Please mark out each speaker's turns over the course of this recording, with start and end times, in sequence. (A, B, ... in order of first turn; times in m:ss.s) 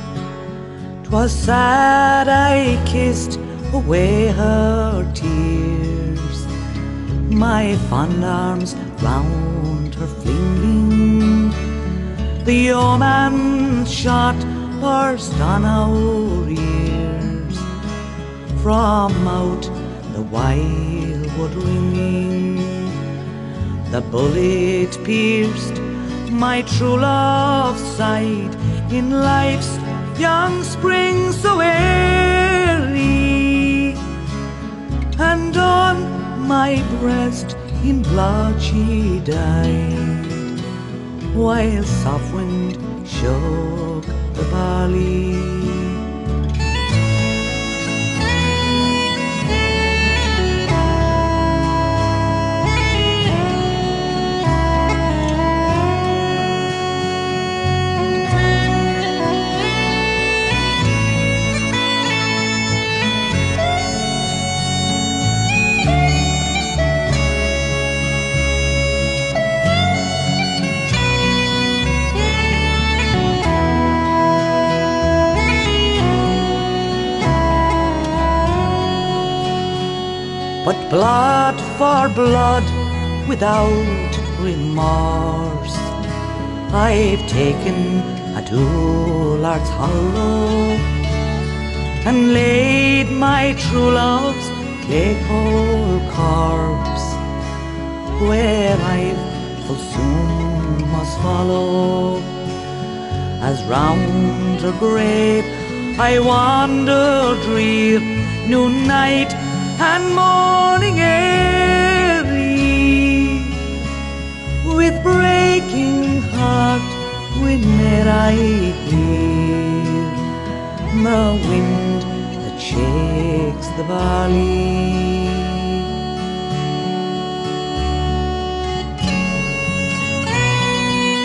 0:01.0-0:06.5 A
0:07.2-0:11.6 A
0:12.4-0:17.7 A
0:18.5-0:22.9 A
0:23.9-0:34.0 A
0:35.1-0:40.5 A
0:41.3-0:46.0 A
1:20.6-1:25.9 A
1:26.7-1:31.0 A
1:32.0-1:37.2 A
1:38.2-1:42.3 A
1:43.4-1:53.7 A
1:54.6-2:00.2 A
2:00.9-2:05.5 A